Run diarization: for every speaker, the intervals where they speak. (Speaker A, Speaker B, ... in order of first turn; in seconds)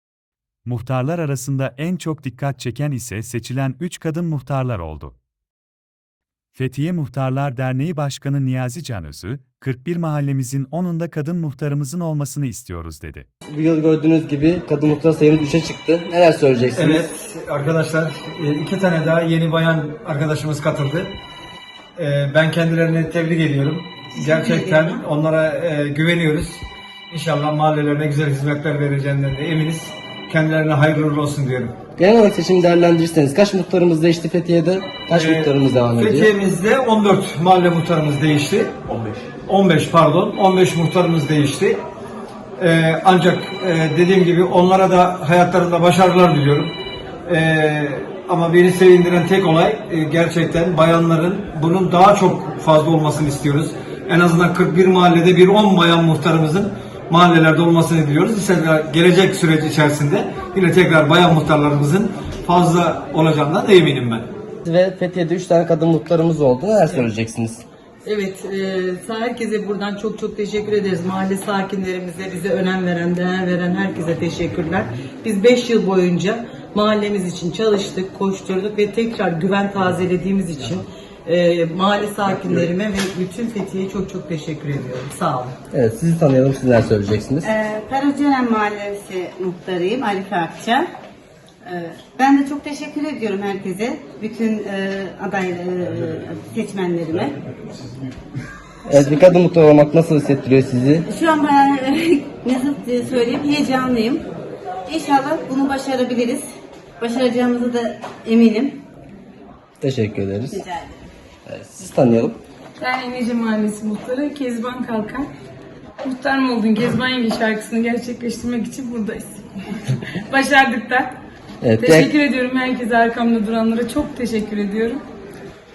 Speaker A: 0.7-5.2, 6.5-13.3
Speaker B: 13.5-17.1, 32.0-36.3, 64.7-67.6, 85.7-87.5, 98.8-101.0, 109.8-110.6, 111.5-112.4, 121.6-122.1
Speaker C: 16.8-21.1, 21.9-31.8, 35.1-41.8, 42.6-46.7, 47.3-64.3
Speaker D: 24.1-25.0, 87.4-90.9, 91.6-97.4, 101.0-104.2, 104.8-108.8, 110.5-111.0
Speaker E: 68.0-85.5
Speaker F: 112.8-115.3, 116.0-121.1, 121.8-125.0